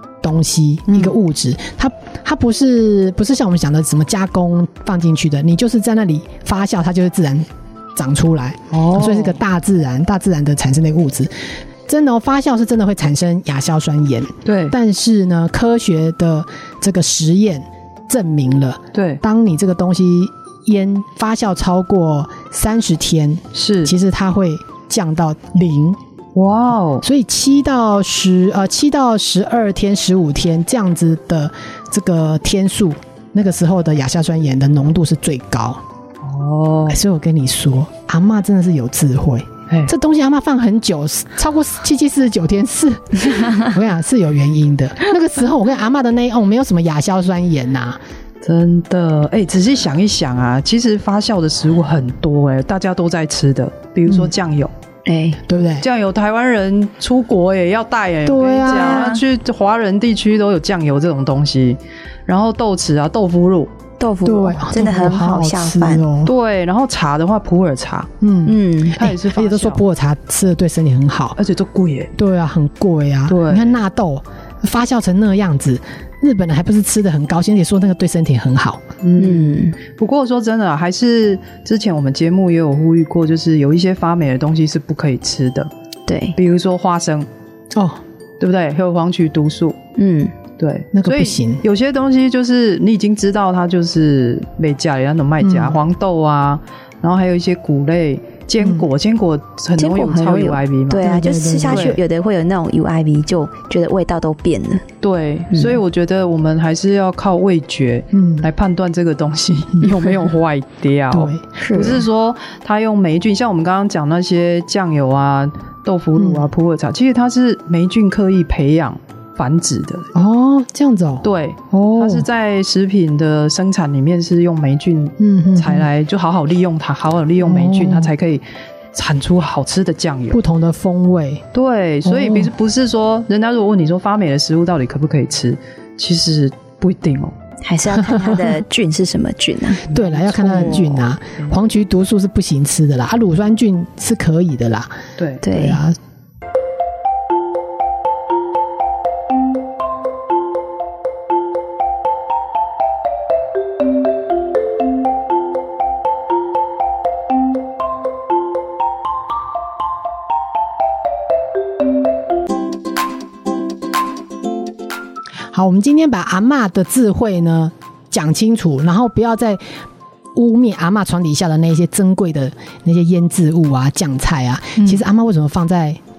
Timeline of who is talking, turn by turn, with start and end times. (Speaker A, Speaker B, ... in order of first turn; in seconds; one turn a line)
Speaker A: 0.2-26.0
Speaker B: 0.9-1.1
Speaker B: 8.7-9.4
Speaker B: 14.4-14.8
Speaker B: 18.9-19.2
Speaker B: 23.5-23.9
Speaker B: 26.3-27.0
Speaker A: 27.0-35.8
Speaker B: 36.2-37.0
Speaker A: 36.9-48.0
Speaker B: 48.4-54.7
Speaker C: 55.0-55.4
Speaker A: 55.5-55.9
Speaker B: 55.8-63.7
Speaker A: 58.2-59.1
Speaker C: 58.6-59.2
Speaker C: 64.0-66.0
Speaker A: 64.2-66.3
Speaker B: 66.2-68.1
Speaker A: 68.2-71.4
Speaker C: 68.5-69.0
Speaker B: 68.9-69.8
Speaker B: 71.4-72.1
Speaker A: 72.1-78.8
Speaker B: 73.3-73.8
Speaker B: 79.0-85.7
Speaker C: 79.2-79.8
Speaker C: 86.1-86.3
Speaker B: 86.3-87.3
Speaker A: 87.7-88.0
Speaker B: 88.4-89.8
Speaker C: 90.0-90.3
Speaker B: 90.6-101.1
Speaker A: 90.9-91.6
Speaker A: 95.4-95.8
Speaker C: 99.8-104.8
Speaker A: 100.9-102.0
Speaker B: 101.7-102.0
Speaker B: 105.0-120.1
Speaker A: 108.1-108.5
Speaker A: 111.1-111.4
Speaker C: 111.6-112.0
Speaker A: 116.2-116.4
Speaker A: 120.1-122.3
Speaker B: 121.2-128.4
Speaker A: 125.2-125.9
Speaker A: 127.4-128.1
Speaker B: 128.9-130.4
Speaker A: 130.3-131.4
Speaker B: 131.5-137.3
Speaker A: 132.0-132.5
Speaker C: 137.6-139.8
Speaker A: 139.9-144.9
Speaker B: 139.9-141.1
Speaker B: 145.2-145.4
Speaker C: 145.4-145.8
Speaker A: 145.5-145.9
Speaker A: 165.5-169.6
Speaker A: 170.3-176.0
Speaker B: 174.8-175.0